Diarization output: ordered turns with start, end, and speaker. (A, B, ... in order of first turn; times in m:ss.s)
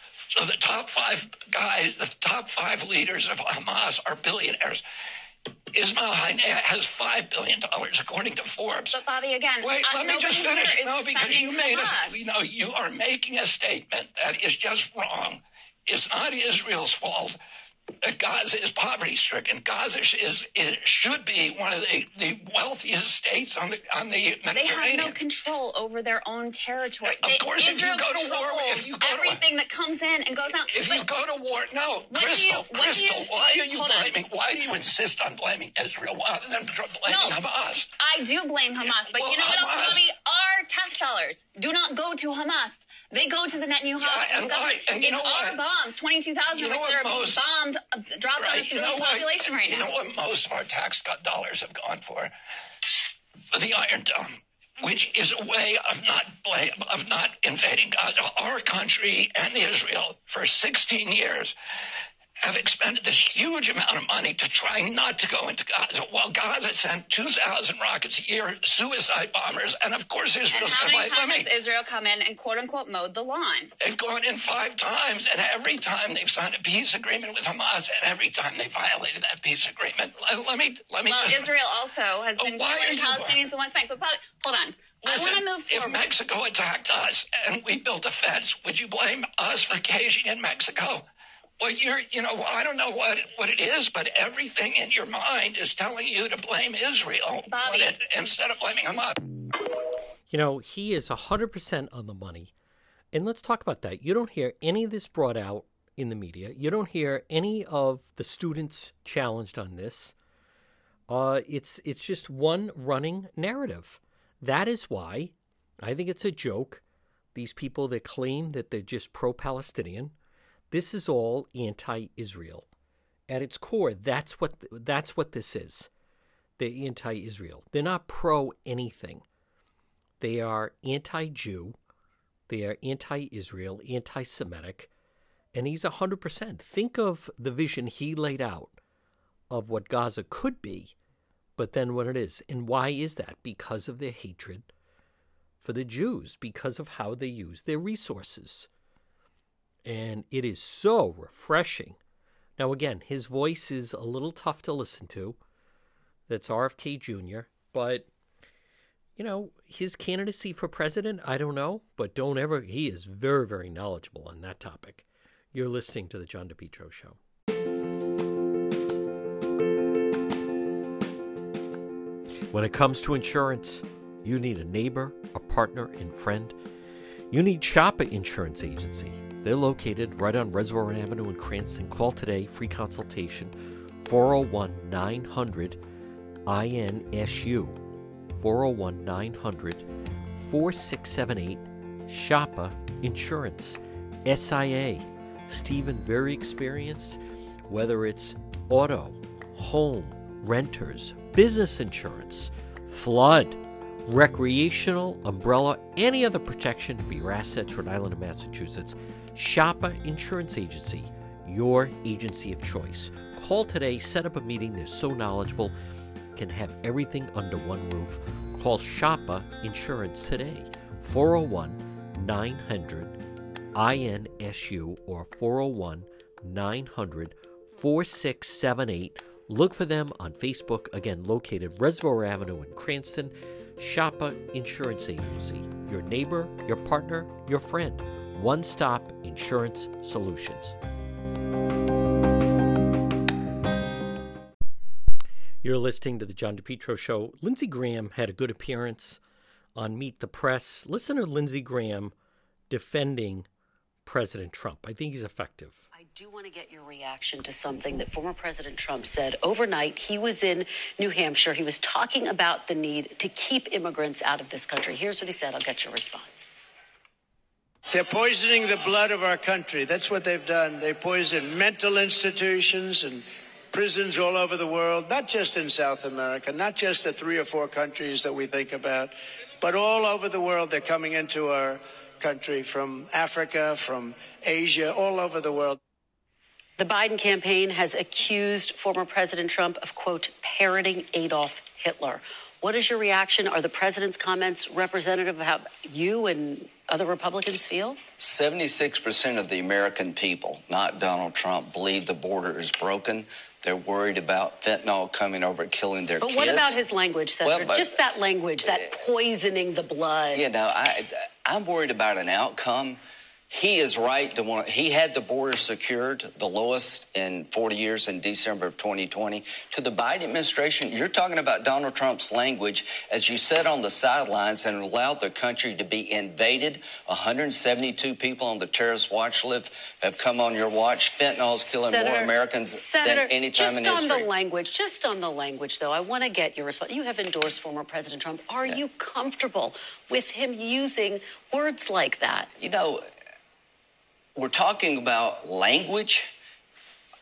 0:00.3-0:04.8 A
0:05.7-0:09.0 A
0:08.9-0:12.1 B
0:09.6-0:17.4 A
0:18.0-0:25.2 A
0:24.5-0:31.0 B
0:27.1-0:29.4 A
0:30.6-0:37.9 A
0:32.1-0:34.2 B
0:37.0-0:37.4 B
0:38.0-0:49.9 B
0:38.8-0:40.0 A
0:44.0-0:45.6 A
0:46.5-0:47.4 A
0:48.4-0:52.3 A
0:53.5-1:01.5 A
1:02.4-1:11.5 A
1:10.5-1:13.7 B
1:13.8-1:21.6 A
1:21.0-1:26.1 B
1:22.4-1:23.4 A
1:25.0-1:31.0 A
1:31.6-1:39.2 A
1:37.5-1:38.0 B
1:40.3-1:42.5 C
1:43.1-1:50.1 C
1:51.1-1:56.8 C
1:57.3-2:00.1 C
2:00.7-2:02.7 C
2:03.3-2:05.9 C
2:06.6-2:09.2 C
2:10.2-2:11.8 C
2:12.5-2:14.9 C
2:15.5-2:18.8 C
2:19.5-2:20.9 C
2:21.6-2:24.7 C
2:25.6-2:28.7 C
2:29.8-2:32.0 C
2:32.6-2:35.4 C
2:36.3-2:38.1 C
2:39.2-2:47.2 C
2:52.5-2:56.6 C
2:57.3-3:03.5 C
3:04.0-3:05.8 C
3:06.4-3:35.8 C
3:36.3-3:43.2 C
3:43.7-4:00.8 C
4:05.6-4:09.2 C
4:09.8-4:12.1 C
4:12.7-4:13.5 C
4:14.0-4:15.8 C
4:15.9-4:26.5 D
4:27.9-4:45.8 E
4:46.8-4:58.0 D
4:58.2-5:06.8 F
5:06.2-5:10.4 D
5:07.4-5:07.9 F
5:08.6-5:08.9 F
5:10.3-5:34.3 F
5:31.7-5:42.5 D
5:42.6-5:43.0 F
5:44.4-5:46.3 F